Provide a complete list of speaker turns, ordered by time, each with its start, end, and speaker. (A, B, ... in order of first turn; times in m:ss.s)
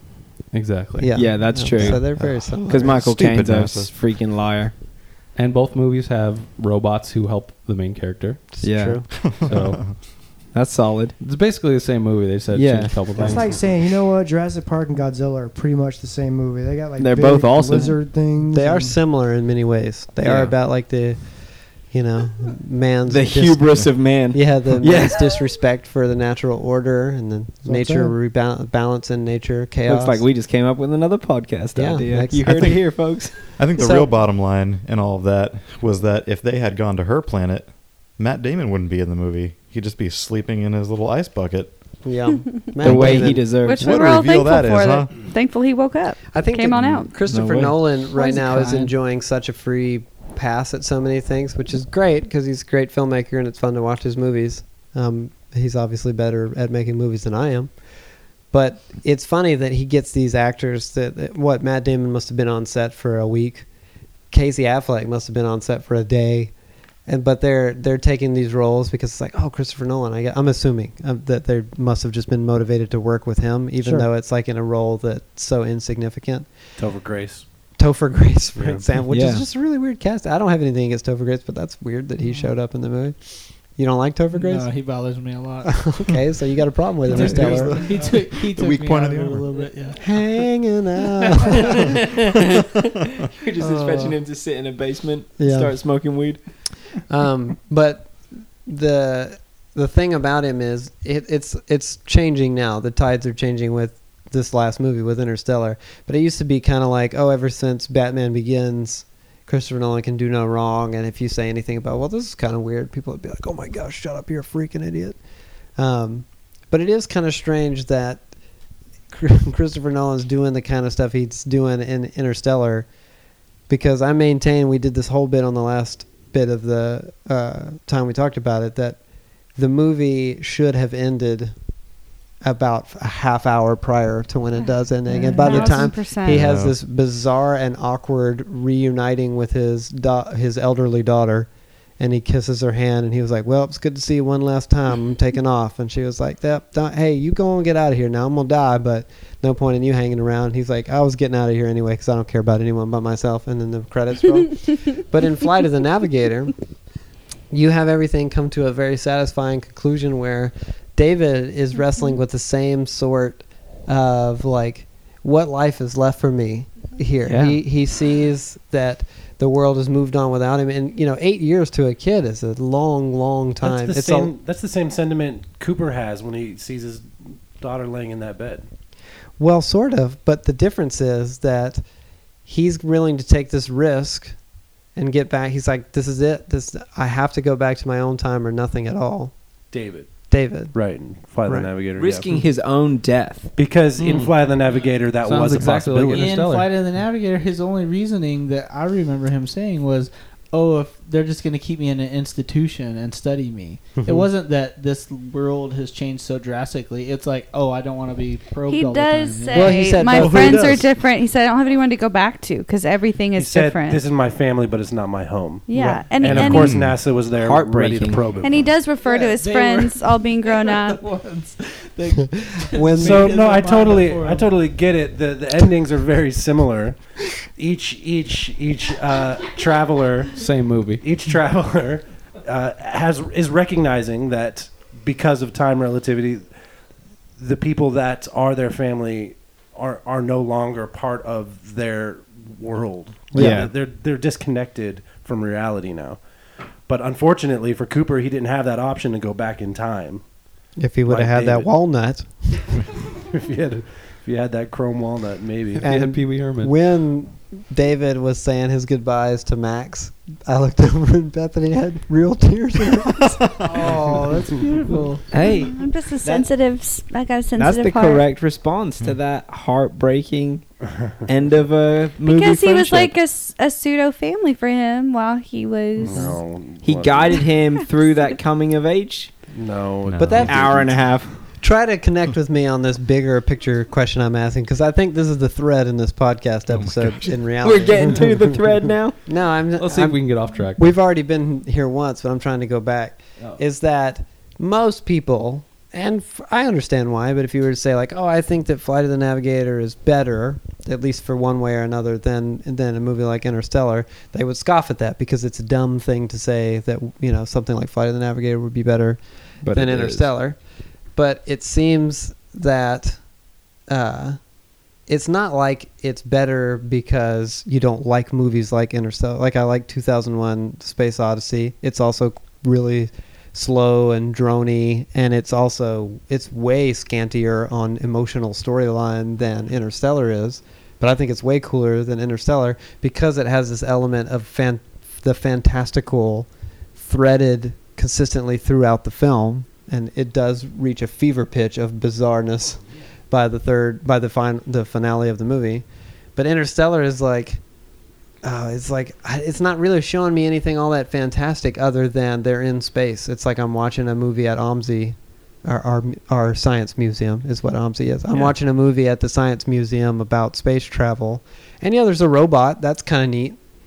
0:00.5-0:01.9 A
0:01.0-0:03.1 B
0:01.1-0:04.7 C
0:02.4-0:03.9 D
0:05.3-0:08.7 A
0:08.6-0:09.4 B
0:08.6-0:09.1 C
0:09.1-0:10.0 D
0:09.4-0:09.9 A
0:10.5-0:11.2 C
0:11.2-0:13.5 A
0:12.5-0:13.0 C
0:13.1-0:19.0 E
0:17.0-0:18.1 C
0:17.7-0:30.2 B
0:20.2-0:20.5 C
0:23.1-0:25.3 C
0:27.6-0:28.2 E
0:29.8-0:33.5 C
0:31.7-0:32.7 B
0:32.5-0:32.8 D
0:33.4-0:41.7 D
0:33.7-0:34.1 B
0:42.0-0:43.5 B
0:42.8-0:43.9 C
0:42.8-0:45.1 D
0:43.6-0:47.1 F
0:46.3-0:57.7 B
0:47.2-0:48.0 C
0:48.1-0:48.9 G
0:58.5-1:03.7 B
1:04.3-1:16.7 B
1:13.8-1:14.1 E
1:16.8-1:17.4 H
1:17.8-1:27.8 B
1:18.5-1:18.8 H
1:19.1-1:19.4 C
1:24.3-1:25.9 G
1:27.0-1:30.2 G
1:27.0-1:29.7 D
1:30.0-1:31.8 B
1:32.0-1:32.4 C
1:33.4-1:36.4 C
1:33.6-1:34.2 E
1:35.4-1:35.8 B
1:37.0-1:55.2 B
1:55.8-1:58.3 B
1:59.1-2:02.9 B
2:03.7-2:09.0 B
2:09.5-2:11.5 B
2:12.4-2:36.6 B
2:14.6-2:16.4 F
2:15.5-2:15.8 H
2:16.2-2:16.8 D
2:37.5-2:54.3 B
2:47.2-2:47.6 C
2:53.6-2:58.6 H
2:59.4-3:01.8 B
3:02.4-3:04.4 B
3:04.9-3:09.4 B
3:09.7-3:10.1 H
3:10.3-3:11.7 B
3:10.7-3:12.4 H
3:11.9-3:13.5 C
3:13.5-3:16.4 H
3:14.0-3:14.3 B
3:15.2-3:16.7 A
3:16.1-3:30.2 G
3:24.0-3:24.3 B
3:28.7-3:34.0 F
3:29.5-3:30.9 B
3:30.2-3:30.8 D
3:33.3-3:38.8 H
3:35.7-3:36.7 F
3:36.2-3:37.0 D
3:37.3-3:38.4 C
3:38.4-3:41.0 F
3:38.9-3:44.6 G
3:42.7-3:43.4 B
3:42.9-3:50.4 H
3:50.4-3:51.0 A
3:51.0-3:56.5 H
3:57.4-4:06.2 H
4:03.3-4:03.7 B
4:03.3-4:03.7 C
4:06.9-4:10.2 H
4:10.8-4:12.7 B
4:11.1-4:11.7 H
4:13.0-4:15.8 H
4:15.8-4:16.7 A
4:15.8-4:23.6 B
4:23.6-4:25.2 E
4:24.8-4:25.4 G
4:25.3-4:25.8 C
4:25.6-4:28.2 F
4:27.6-4:30.6 C
4:30.9-4:31.2 H
4:31.2-4:33.2 C
4:32.2-4:36.4 F
4:36.0-4:37.5 H
4:36.8-4:39.3 C
4:39.5-4:41.2 H
4:40.1-4:40.7 D
4:40.2-4:40.9 B
4:40.4-4:41.4 C
4:41.6-4:48.4 B
4:46.7-4:47.3 D
4:47.6-4:49.2 C
4:49.2-5:10.6 B
4:49.8-4:50.9 A
5:09.6-5:10.3 C
5:11.1-5:13.2 B
5:13.9-5:14.4 B
5:15.1-5:42.8 B
5:43.3-5:45.8 B
5:46.4-5:47.6 B
5:48.4-6:03.6 B
5:58.3-5:58.5 H